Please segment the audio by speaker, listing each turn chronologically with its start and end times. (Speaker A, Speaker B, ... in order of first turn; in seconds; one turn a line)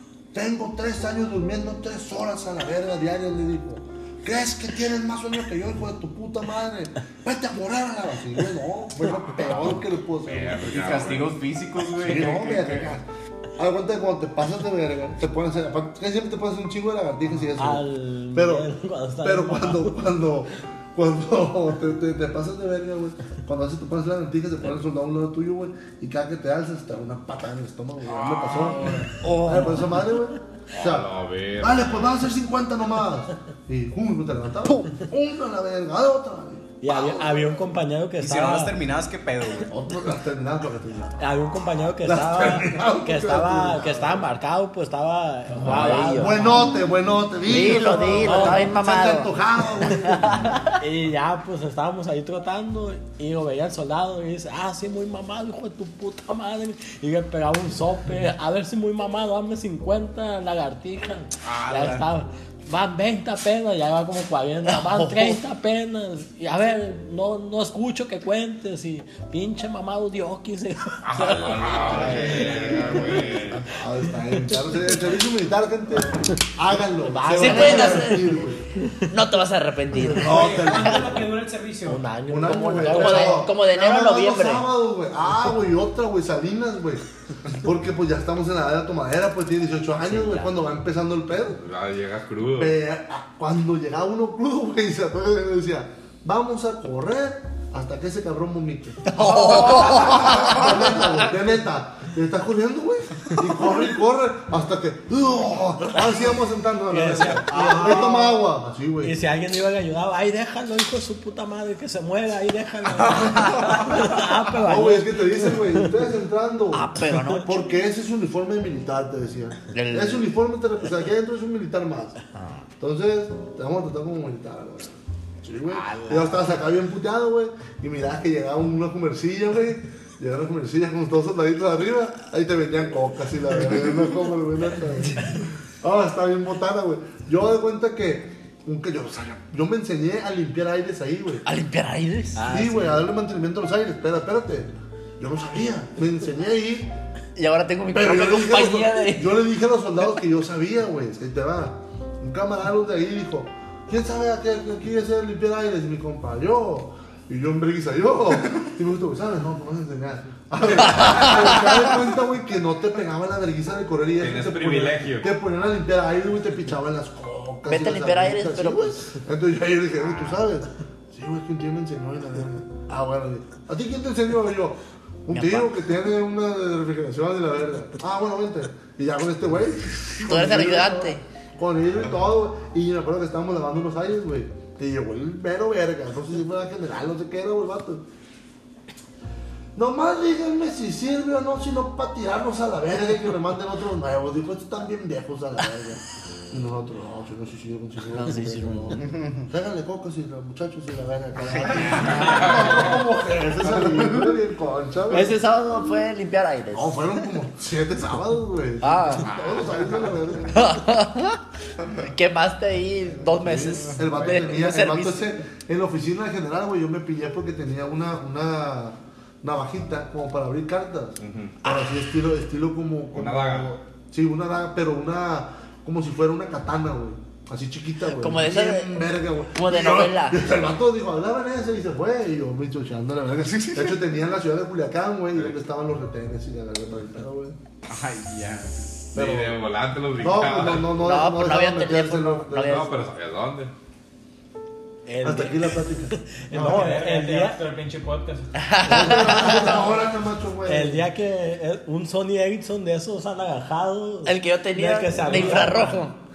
Speaker A: 0.3-10.7
Speaker B: 9.4-11.4
Speaker C: 10.6-12.9
Speaker A: 11.9-18.7
Speaker D: 17.6-20.0
Speaker A: 19.2-37.6
Speaker C: 28.2-29.1
Speaker B: 28.4-28.7
Speaker E: 28.9-30.0
Speaker B: 30.7-32.2
Speaker D: 36.8-38.8
Speaker C: 38.2-39.7
Speaker A: 39.7-41.2
Speaker D: 41.2-46.7
Speaker A: 42.0-44.3
Speaker E: 45.6-46.6
Speaker A: 45.6-50.5
Speaker E: 47.5-50.8
Speaker D: 47.9-48.6
Speaker D: 50.8-72.9
Speaker C: 61.4-62.1
Speaker E: 64.7-65.4
Speaker B: 71.0-73.7
Speaker C: 71.5-73.1
Speaker A: 71.9-78.6
Speaker D: 77.1-79.1
Speaker E: 77.3-78.3
Speaker E: 79.1-81.2
Speaker A: 79.9-81.2
Speaker F: 80.2-82.0
Speaker D: 81.9-83.5
Speaker A: 82.3-91.6
Speaker E: 82.7-84.7
Speaker E: 90.0-90.5
Speaker B: 91.6-92.8
Speaker A: 92.5-109.1
Speaker E: 99.2-100.7
Speaker D: 106.9-108.4
Speaker D: 109.0-115.9
Speaker A: 113.6-122.2
Speaker E: 116.7-117.6
Speaker E: 119.7-120.3
Speaker E: 122.3-122.6
Speaker A: 122.8-141.4
Speaker E: 125.7-126.5
Speaker E: 141.4-142.5
Speaker D: 142.3-143.0
Speaker A: 142.5-146.9
Speaker E: 147.3-149.3
Speaker A: 147.9-188.0
Speaker B: 164.2-165.3
Speaker E: 167.7-169.0
Speaker B: 170.1-170.4
Speaker E: 175.3-175.7
Speaker E: 180.2-181.2
Speaker A: 189.7-205.3
Speaker D: 198.3-199.0
Speaker E: 198.3-198.9
Speaker C: 199.2-199.4
Speaker C: 201.4-203.0
Speaker B: 202.2-202.9
Speaker E: 205.1-207.0
Speaker A: 206.7-210.8
Speaker E: 208.8-209.3
Speaker B: 209.2-210.0
Speaker E: 210.5-215.3
Speaker A: 213.3-237.6
Speaker B: 221.2-221.6
Speaker E: 221.6-221.9
Speaker B: 223.1-223.7
Speaker E: 228.1-228.9
Speaker E: 229.5-230.4
Speaker C: 237.9-239.1
Speaker A: 239.1-239.6
Speaker B: 239.1-241.0
Speaker A: 240.2-243.1
Speaker E: 240.9-243.0
Speaker B: 242.5-243.7
Speaker D: 245.1-247.6
Speaker A: 245.2-247.0
Speaker F: 246.5-248.5
Speaker E: 248.5-249.9
Speaker A: 248.8-251.1
Speaker D: 250.7-256.0
Speaker E: 254.2-256.2
Speaker F: 255.3-255.7